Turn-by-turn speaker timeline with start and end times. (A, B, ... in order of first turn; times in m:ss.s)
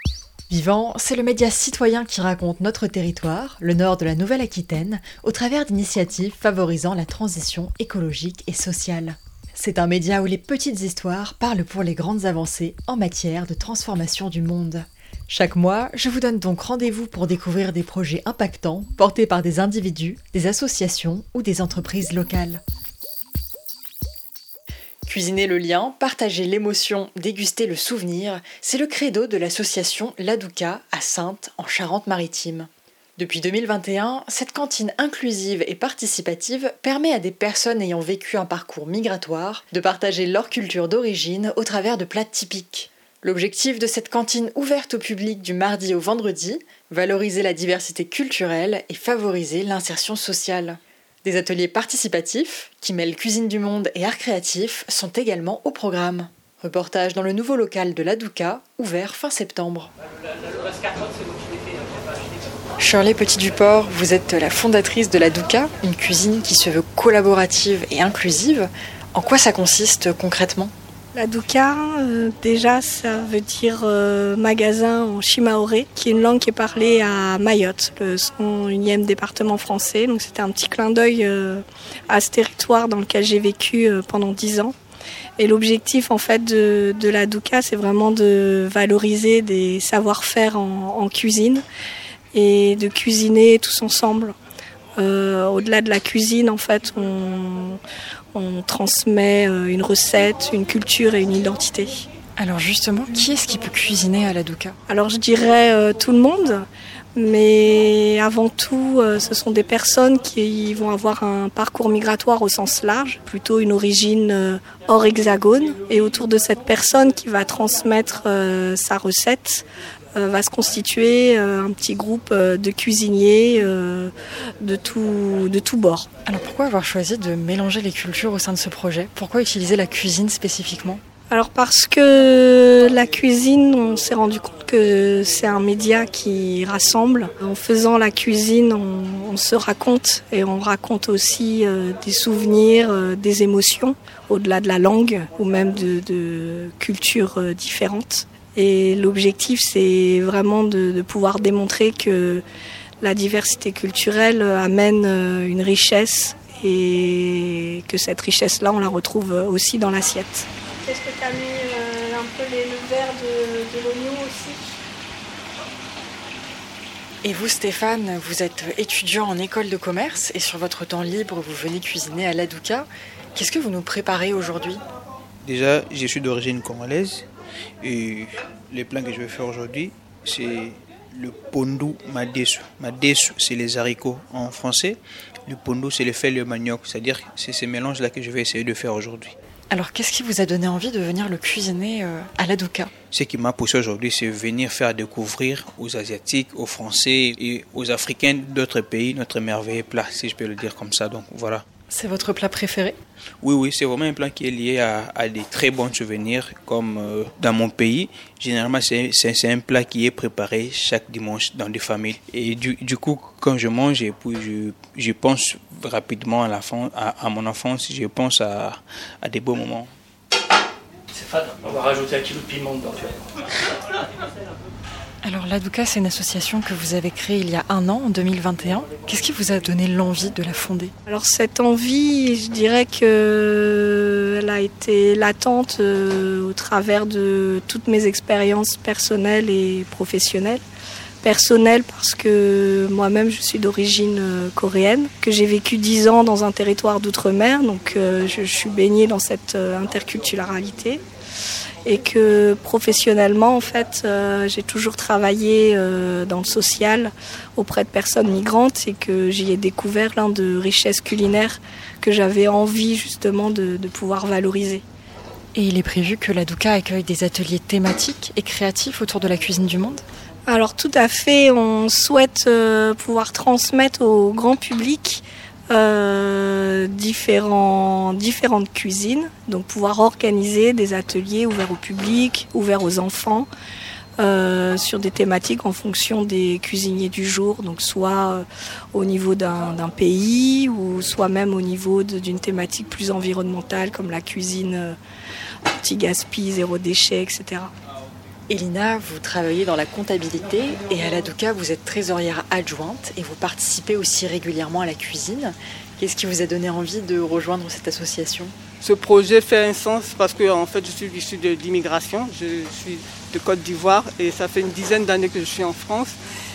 0:00.5-0:22.6 A
0:25.0-0:59.9 A
1:02.8-1:10.7 A
1:11.1-1:24.8 B
1:25.4-1:31.6 B
1:32.3-1:34.4 B
1:35.0-1:37.8 B
1:38.3-1:42.1 B
1:42.4-1:44.8 A
1:44.9-2:06.1 B
2:06.2-2:11.0 A
2:11.3-2:32.4 B
2:33.0-2:44.6 B
2:47.2-2:54.8 A
2:55.4-2:57.3 C
2:57.8-3:09.3 C
3:09.7-3:12.9 A
3:13.1-3:21.6 C
3:21.9-3:23.0 A
3:23.4-3:39.9 C
3:41.1-3:43.1 D
3:45.2-3:50.9 A
3:51.1-4:00.6 B
4:01.2-4:11.0 B
4:11.8-4:24.8 B
4:25.5-4:30.0 A
4:30.5-4:43.5 B
4:44.2-4:55.0 B
4:55.7-4:57.7 B
4:58.5-5:08.5 A
5:08.8-5:16.2 E